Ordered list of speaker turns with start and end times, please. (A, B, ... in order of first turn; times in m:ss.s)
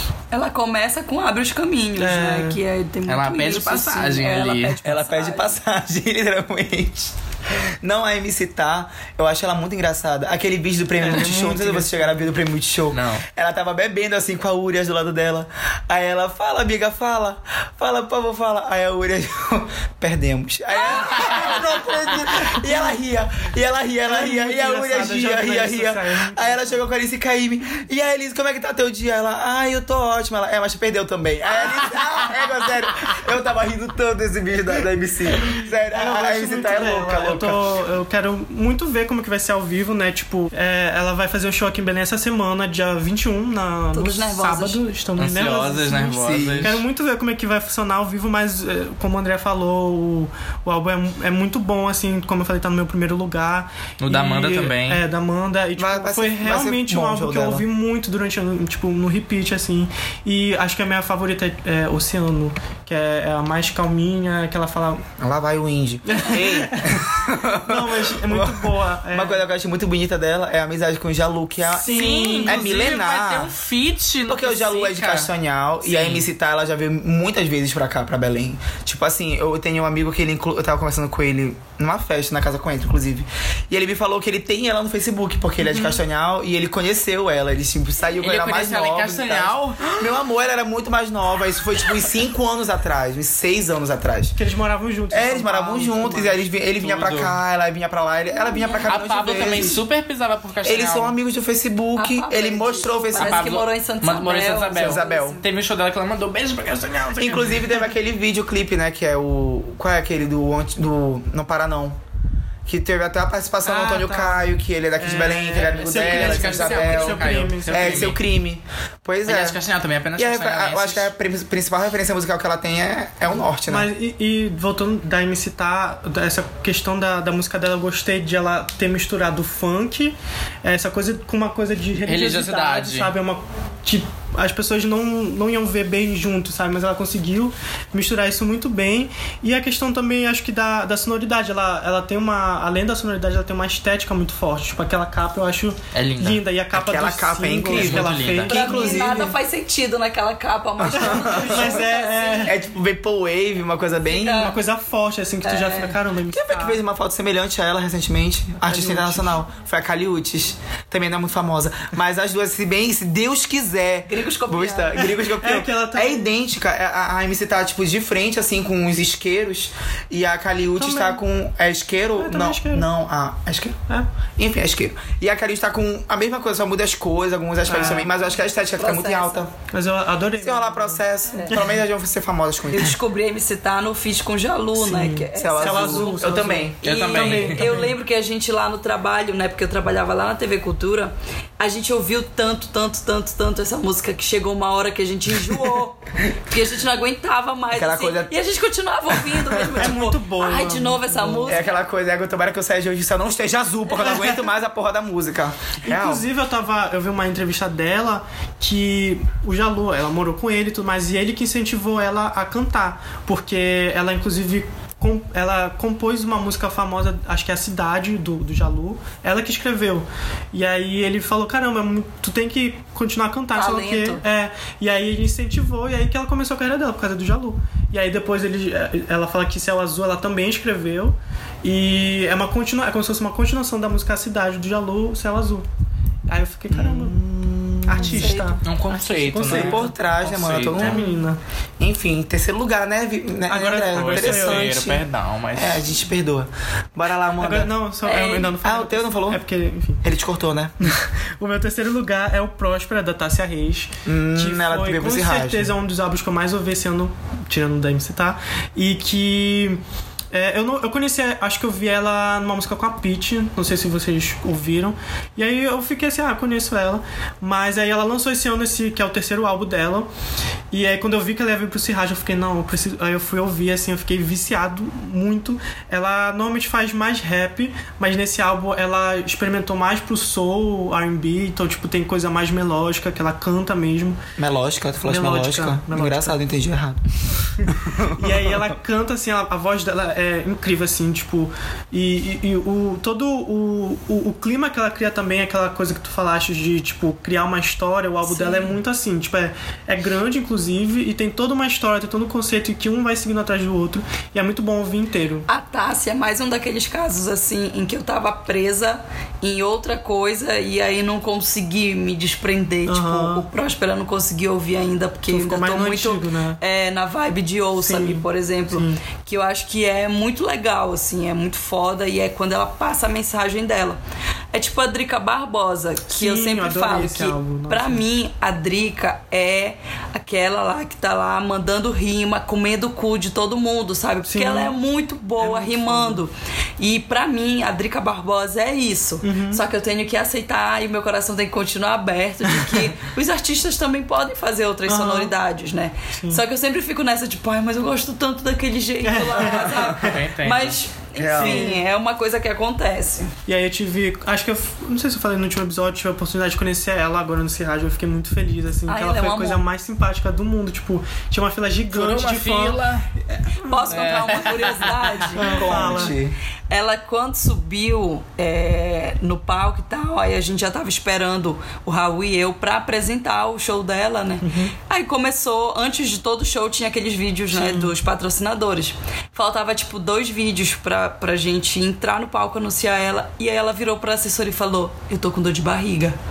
0:00.3-0:05.5 A
0:02.0-0:02.6 B
0:03.1-0:04.8 C
0:04.8-0:37.6 D
0:11.0-0:12.2 B
0:12.9-0:13.2 C
0:21.1-0:21.5 C
0:24.0-0:26.7 B
0:35.9-1:05.1 B
0:43.9-0:44.8 A
0:45.2-0:46.8 C
0:46.2-0:46.8 D
0:54.0-0:55.0 C
0:55.8-0:57.7 D
1:05.2-1:13.5 D
1:06.1-1:09.4 B
1:11.7-1:12.6 B
1:11.8-1:15.3 C
1:14.3-1:34.4 D
1:15.8-1:16.3 C
1:25.6-1:26.0 B
1:28.2-1:30.1 C
1:34.4-1:36.4 B
1:35.1-1:39.8 D
1:36.8-1:37.4 C
1:38.3-1:38.9 A
1:38.8-1:41.2 C
1:40.6-1:43.5 D
1:42.0-1:45.4 A
1:43.2-1:47.7 C
1:44.8-1:45.4 D
1:47.2-1:52.0 D
1:52.7-1:59.6 D
1:53.6-1:58.2 B
1:55.6-1:58.2 C
1:59.3-2:01.1 C
2:00.2-2:03.9 D
2:03.7-2:29.4 B
2:12.0-2:13.1 C
2:25.9-2:26.4 C
2:26.7-2:29.3 D
2:27.7-2:28.5 C
2:28.5-2:32.6 A
2:30.8-2:31.7 D
2:31.0-2:32.6 B
2:32.4-2:34.6 D
2:34.1-2:34.6 A
2:34.2-2:36.8 B
2:35.4-2:36.0 A
2:36.3-2:53.8 D
2:38.6-2:39.4 B
2:44.1-2:45.1 A
2:45.3-2:46.3 B
2:50.8-2:51.2 B
2:52.2-2:52.9 B
2:54.4-2:59.5 D
2:57.6-2:58.1 B
2:58.8-2:59.4 A
2:59.7-3:01.8 B
3:00.4-3:03.0 D
3:02.7-3:21.8 A
3:04.8-3:07.9 B
3:05.4-3:06.8 D
3:06.8-3:07.8 C
3:17.7-3:18.4 D
3:19.2-3:19.8 D
3:19.8-3:21.6 B
3:21.5-3:26.2 D
3:24.0-3:24.4 B
3:25.8-3:55.7 B
3:43.5-3:44.2 A
3:56.3-3:57.2 B
3:56.7-3:58.4 D
3:57.9-4:00.0 B
3:58.0-3:58.6 A
3:58.6-4:01.1 C
3:59.5-4:01.0 D
4:00.7-4:01.4 B
4:01.8-4:07.7 D
4:03.5-4:04.8 B
4:03.9-4:05.9 C
4:07.4-4:10.0 B
4:08.0-4:08.5 A
4:08.2-4:09.4 D
4:10.0-4:10.9 D
4:10.8-4:19.8 B
4:14.1-4:15.7 D
4:20.3-4:30.1 B
4:30.7-4:44.2 B
4:44.4-4:47.0 D
4:45.0-4:46.4 B
4:47.6-5:05.5 B
4:47.7-4:48.6 D
4:58.2-4:58.7 A
5:05.5-5:24.0 A
5:12.9-5:13.5 B
5:15.3-5:16.6 B
5:17.8-5:19.0 B
5:24.5-5:53.3 A
5:26.1-5:28.0 B
5:34.2-5:34.8 B
5:35.4-5:36.2 B
5:39.2-5:39.6 B
5:44.9-5:45.3 B
5:46.2-5:46.4 B
5:49.0-5:50.2 B
5:49.8-5:50.8 C
5:51.2-5:51.8 D
5:51.3-5:51.8 B
5:53.5-6:02.8 B
5:58.9-5:59.6 A
6:01.9-6:03.1 C
6:03.4-6:04.2 B
6:03.6-6:06.1 A
6:03.9-6:05.5 C
6:05.4-6:06.2 B
6:05.5-6:06.4 D
6:06.7-6:26.2 A
6:14.4-6:14.7 B
6:17.5-6:17.9 B